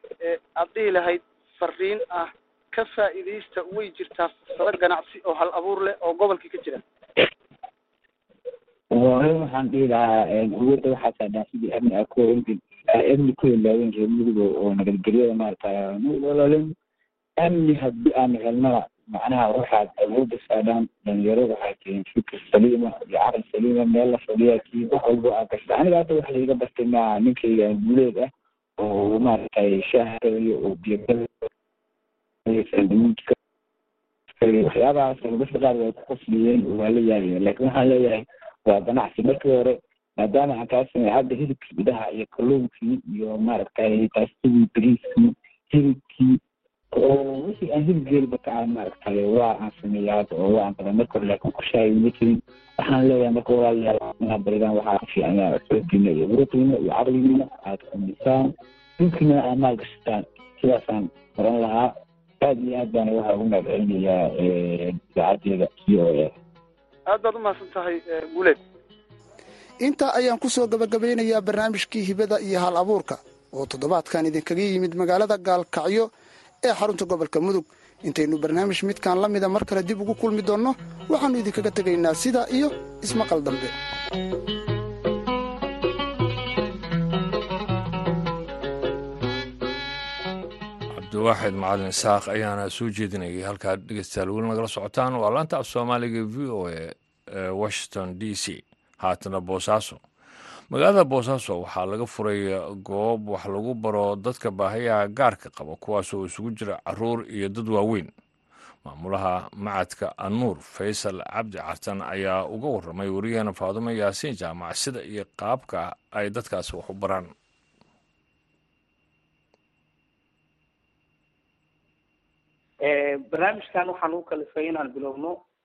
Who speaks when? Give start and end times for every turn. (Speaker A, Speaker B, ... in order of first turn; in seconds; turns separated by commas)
Speaker A: 0.2-6.8, Speaker B: 8.9-16.7, Speaker B: 17.4-31.5, Speaker B: 32.5-33.4, Speaker B: 34.3-46.4, Speaker B: 46.9-66.3, Speaker A: 67.1-68.6, Speaker C: 69.8-76.1, Speaker C: 76.6-83.7, Speaker D: 91.0-100.0, Speaker D: 100.7-108.1, Speaker D: 108.8-117.3, Speaker E: 122.8-125.4